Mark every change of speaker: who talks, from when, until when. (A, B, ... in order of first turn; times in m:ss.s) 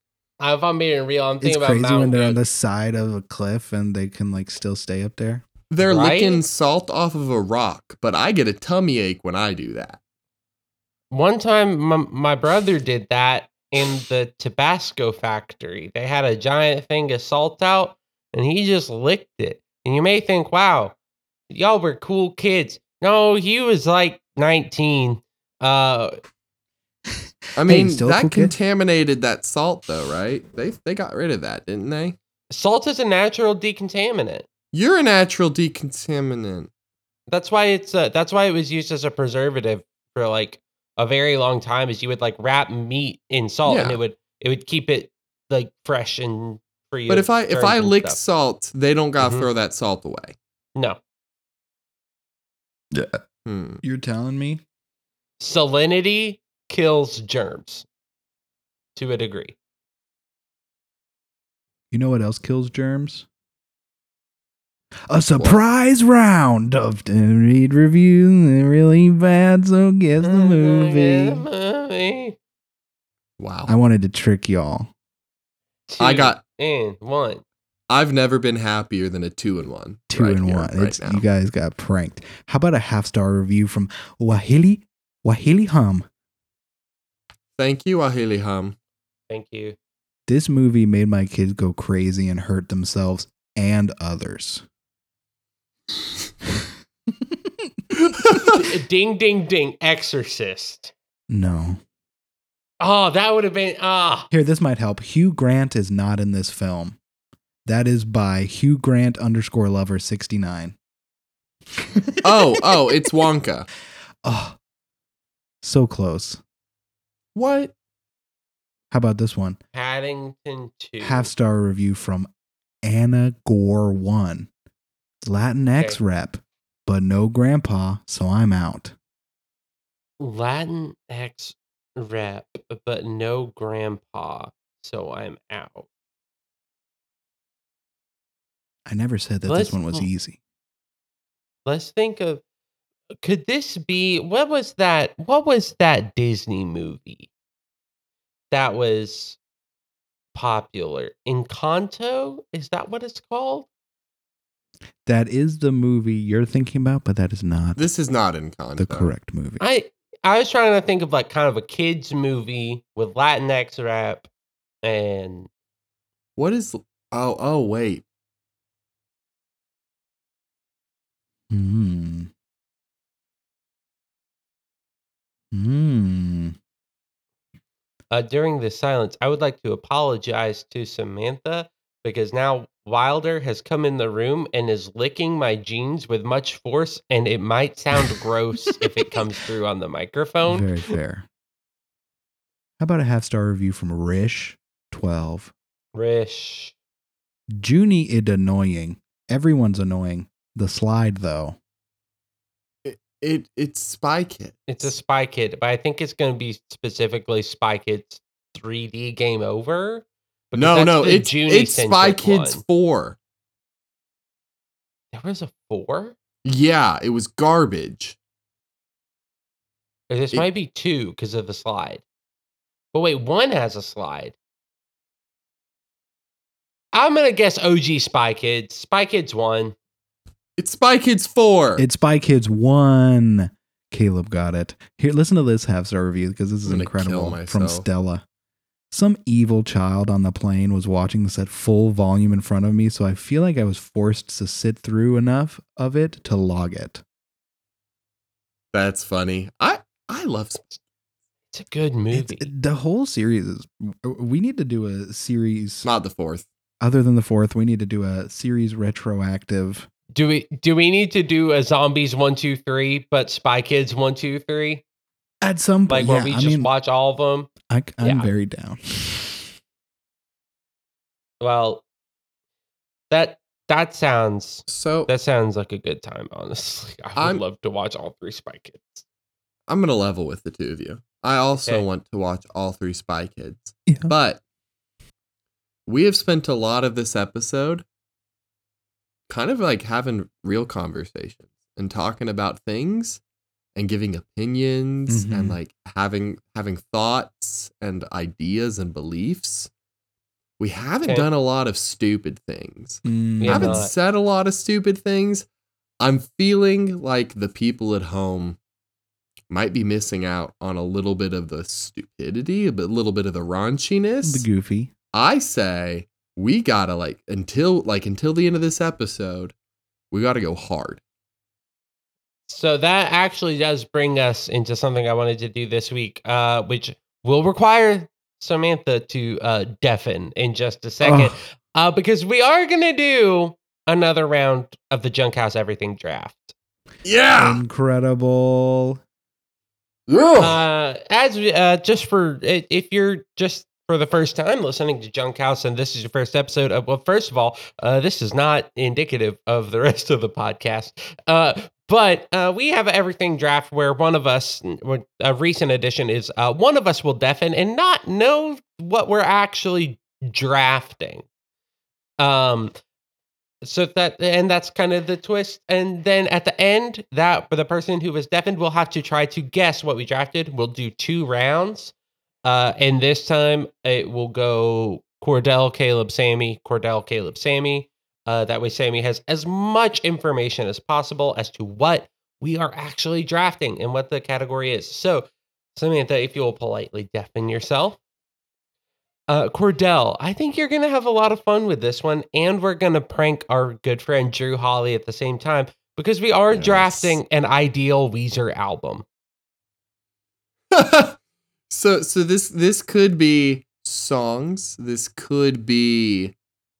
0:00.4-0:02.4 A
0:01.4-0:05.4 B
0:05.7-0:10.0 C
0:05.8-0:06.4 A
0:11.1-0:20.9 A
0:21.5-0:26.2 A
0:27.6-0:32.2 C
0:27.6-0:28.5 B
0:32.5-0:34.4 A
0:34.7-0:36.7 C
0:37.3-0:48.2 A
0:43.7-0:44.0 C
0:47.1-0:50.4 C
0:49.2-0:49.5 A
0:52.9-0:53.2 B
0:53.4-0:53.8 C
0:53.8-0:54.6 B
0:55.4-0:57.8 A
0:58.9-0:59.5 A
1:01.9-1:03.2 B
1:05.1-1:11.4 B
1:10.2-1:12.4 A
1:13.4-1:13.7 C
1:13.7-1:14.9 B
1:15.9-1:17.4 A
1:16.0-1:16.4 C
1:17.9-1:21.2 C
1:20.1-1:26.0 B
1:27.6-1:28.8 C
1:29.3-1:29.8 A
1:30.3-1:34.6 B
1:37.2-1:37.7 B
1:38.2-1:38.6 C
1:38.5-1:40.9 A
1:41.3-1:41.8 B
1:42.8-1:44.3 A
1:44.3-1:47.0 B
1:47.6-1:50.8 B
1:51.7-1:52.6 B
1:52.2-1:53.7 C
1:54.2-1:54.6 B
1:55.6-1:56.4 B
1:57.3-1:57.7 C
1:58.9-1:59.6 B
1:59.7-2:01.3 A
2:01.0-2:02.3 B
2:02.8-2:04.5 B
2:05.2-2:08.9 B
2:10.2-2:15.9 A
2:18.8-2:20.4 B
2:19.4-2:20.0 A
2:21.6-2:22.4 A
2:23.2-2:27.3 A
2:28.5-2:29.4 A
2:30.3-2:33.7 A
2:35.0-2:37.8 B
2:37.8-2:39.1 C
2:38.8-2:39.6 B
2:39.6-2:44.3 A
2:44.8-2:45.5 A
2:46.4-2:48.0 C
2:51.5-2:52.3 B
2:55.5-2:56.6 B
2:58.1-3:10.9 A
3:10.5-3:11.3 B
3:12.8-3:15.5 B
3:15.9-3:16.7 A
3:17.6-3:21.6 B
3:22.8-3:24.9 C
3:24.7-3:32.6 A
3:30.5-3:33.2 C
3:35.1-3:36.1 A
3:36.4-3:38.2 C
3:40.1-3:42.0 A
3:42.9-3:44.3 A
3:46.9-3:49.7 A
3:50.6-3:51.8 C
3:51.8-3:58.2 B
3:56.6-3:57.8 C
3:58.9-4:07.0 B
4:08.7-4:10.8 C
4:11.5-4:12.5 A
4:12.1-4:15.9 B
4:15.8-4:16.4 C
4:16.8-4:19.9 B
4:20.1-4:24.8 A
4:25.4-4:26.7 B
4:25.9-4:28.3 A
4:27.7-4:29.5 B
4:31.4-4:31.8 A
4:33.1-4:39.0 A
4:34.7-4:35.1 C
4:37.2-4:37.4 C
4:39.7-4:44.4 C
4:43.9-4:44.1 B
4:45.9-4:47.8 C
4:49.3-4:53.2 C
4:53.7-4:59.7 C
4:55.1-4:55.6 B
5:00.6-5:05.4 C
5:03.0-5:03.8 B
5:03.4-5:03.9 A
5:06.0-5:08.6 C
5:09.5-5:14.4 C
5:14.2-5:14.9 B
5:15.1-5:19.5 C
5:20.1-5:21.0 C
5:22.5-5:36.5 A
5:31.0-5:31.3 B
5:37.0-5:37.6 C
5:37.4-5:39.0 B
5:40.1-5:40.6 C
5:40.4-6:01.2 A
6:02.2-6:02.7 A
6:03.6-6:11.9 A
6:12.4-6:28.0 A
6:29.3-6:39.0 A
6:36.5-6:37.2 C
6:40.7-6:41.2 C
6:41.7-6:46.3 C